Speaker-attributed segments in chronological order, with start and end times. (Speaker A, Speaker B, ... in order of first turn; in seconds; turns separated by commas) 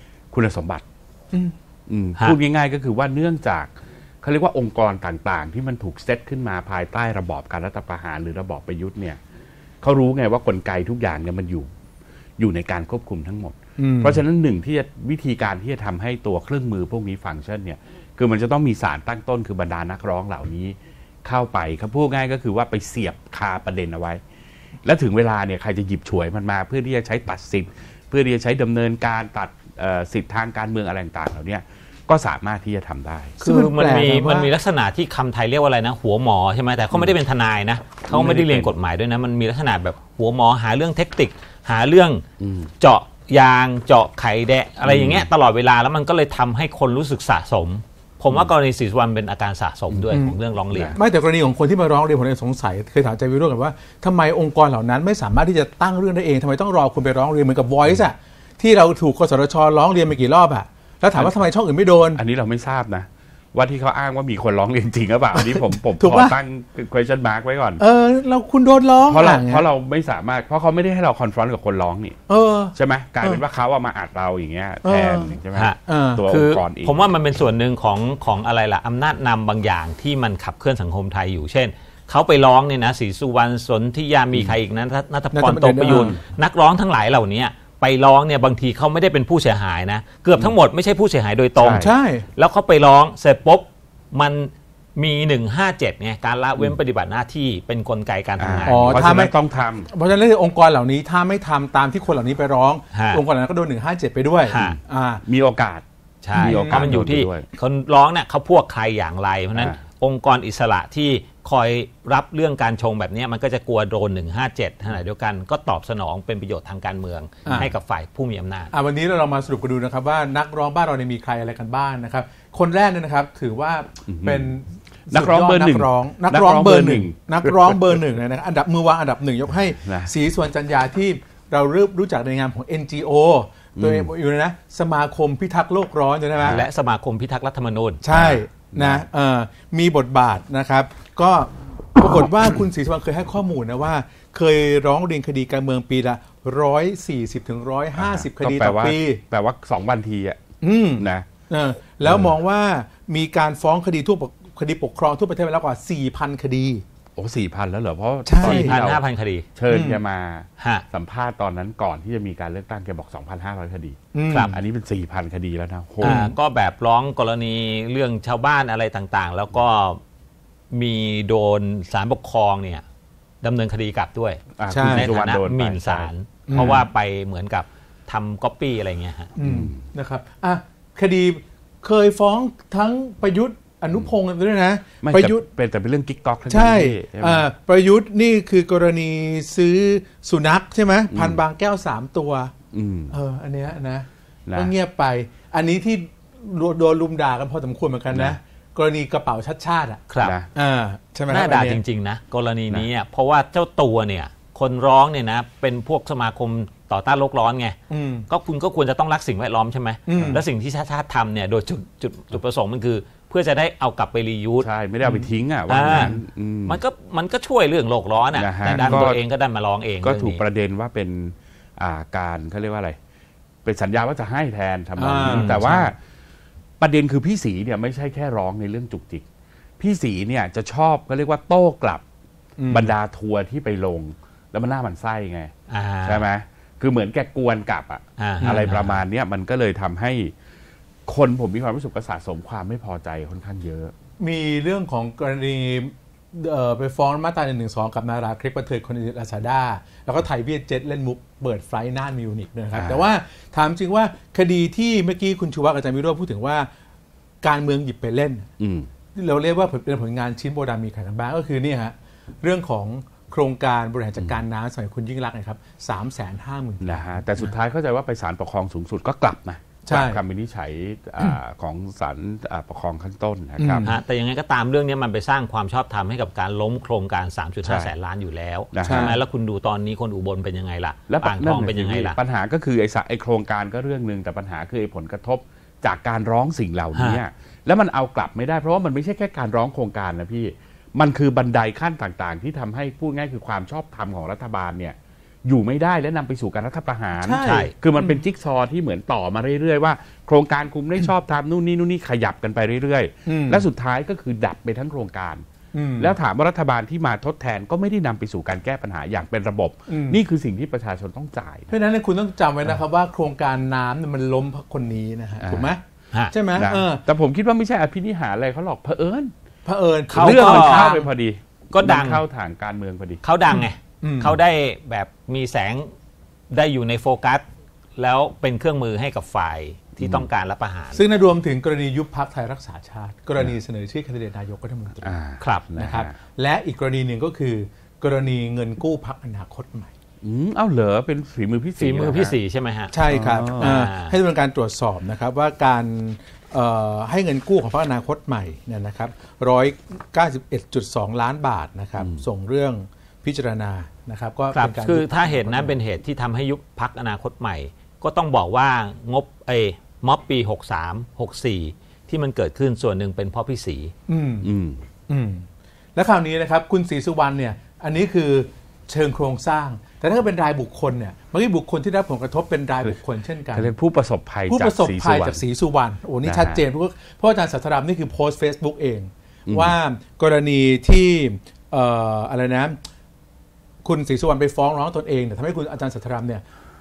Speaker A: 0.3-0.8, Speaker A: 1.9-9.2, Speaker A: 9.8-11.7, Speaker A: 12.4-24.2, Speaker B: 13.8-14.2, Speaker A: 24.8-33.4, Speaker B: 33.4-34.5, Speaker C: 33.4-42.2, Speaker A: 38.1-38.7, Speaker A: 42.4-42.7, Speaker C: 42.8-51.0, Speaker A: 44.8-45.3, Speaker B: 50.1-50.4, Speaker A: 50.7-51.0, Speaker B: 50.9-62.2, Speaker A: 61.1-61.4, Speaker A: 62.1-67.8, Speaker B: 65.3-66.3, Speaker B: 67.8-69.7, Speaker A: 69.1-72.2, Speaker B: 72.3-73.4, Speaker A: 72.7-77.0, Speaker B: 74.8-75.3, Speaker C: 75.5-99.1, Speaker B: 75.8-76.2, Speaker B: 85.3-86.2, Speaker A: 85.9-86.2, Speaker A: 91.5-91.9, Speaker B: 91.8-92.2, Speaker A: 98.4-99.9, Speaker B: 98.7-99.3, Speaker B: 99.9-105.2, Speaker C: 102.9-103.2, Speaker C: 104.5-104.8, Speaker A: 105.2-105.8, Speaker C: 106.2-118.7, Speaker B: 106.3-106.9, Speaker A: 106.3-107.5, Speaker B: 117.4-117.7, Speaker A: 117.5-117.7, Speaker B: 118.7-136.6, Speaker A: 124.1-124.5, Speaker A: 125.1-128.0, Speaker A: 129.8-130.1, Speaker A: 133.8-134.1, Speaker A: 136.4-136.7, Speaker C: 136.5-138.0, Speaker B: 138.0-149.2, Speaker A: 138.1-139.1, Speaker A: 148.0-150.4, Speaker B: 150.6-156.8, Speaker A: 151.0-151.3, Speaker A: 152.0-152.3, Speaker A: 157.2-159.0, Speaker B: 158.2-158.8, Speaker C: 158.4-159.5, Speaker A: 159.5-166.3, Speaker B: 159.7-160.0, Speaker C: 160.6-160.8, Speaker B: 164.1-164.6, Speaker C: 164.3-164.5, Speaker C: 166.0-170.0, Speaker B: 166.0-166.3, Speaker C: 170.7-172.8, Speaker C: 173.4-179.3, Speaker A: 174.6-176.8, Speaker B: 174.7-175.1, Speaker B: 176.5-176.8, Speaker B: 179.4-185.4, Speaker A: 179.4-179.8, Speaker A: 185.0-187.4, Speaker B: 186.5-192.5, Speaker A: 191.1-191.4, Speaker A: 192.7-193.1, Speaker B: 193.1-201.8, Speaker A: 194.5-194.7, Speaker A: 198.1-198.4, Speaker C: 200.1-200.3, Speaker A: 200.2-200.5, Speaker C: 201.3-207.8, Speaker B: 207.9-208.3, Speaker C: 208.3-214.7, Speaker B: 210.1-210.4, Speaker A: 214.6-216.8, Speaker C: 215.7-216.1, Speaker B: 215.8-216.2, Speaker C: 216.6-220.4, Speaker A: 218.3-219.2, Speaker B: 218.7-219.1, Speaker A: 220.0-222.9, Speaker A: 223.6-225.9, Speaker B: 225.0-225.8, Speaker C: 225.2-225.9, Speaker A: 226.8-229.2, Speaker A: 229.8-232.0, Speaker B: 232.6-232.9, Speaker A: 232.7-235.5, Speaker C: 235.7-236.2, Speaker A: 236.0-240.3, Speaker C: 238.2-239.0, Speaker A: 241.1-243.9, Speaker B: 244.2-256.7, Speaker A: 252.7-253.1, Speaker B: 257.4-258.5, Speaker A: 258.6-258.9, Speaker B: 259.1-267.5, Speaker A: 266.8-273.9, Speaker B: 269.8-270.2, Speaker B: 273.6-274.0, Speaker C: 273.8-282.2, Speaker A: 277.6-277.9, Speaker A: 278.7-279.2, Speaker B: 278.8-279.2, Speaker A: 281.1-305.4, Speaker C: 286.9-287.2, Speaker B: 297.2-298.2, Speaker C: 297.4-297.7, Speaker B: 303.2-303.6, Speaker B: 305.7-306.2, Speaker A: 306.0-311.7, Speaker B: 309.9-310.2, Speaker B: 311.7-317.0, Speaker A: 315.4-315.8, Speaker A: 316.5-319.3, Speaker B: 319.6-321.1, Speaker C: 320.1-321.0, Speaker A: 320.1-323.2, Speaker C: 321.7-322.2, Speaker C: 323.2-325.9, Speaker B: 323.5-324.4, Speaker C: 326.5-327.4, Speaker C: 328.0-331.0, Speaker A: 330.0-330.2, Speaker B: 330.9-335.2, Speaker A: 335.0-336.1, Speaker C: 335.4-335.6, Speaker B: 335.8-339.9, Speaker A: 340.2-342.3, Speaker C: 341.8-342.9, Speaker B: 342.9-355.8, Speaker A: 343.1-343.9, Speaker C: 343.5-344.2, Speaker C: 354.5-363.9, Speaker B: 364.1-364.5, Speaker A: 364.4-364.8, Speaker B: 365.1-373.7, Speaker A: 373.5-375.4, Speaker B: 374.5-382.8, Speaker A: 376.2-376.6, Speaker A: 379.5-379.8, Speaker B: 383.8-386.4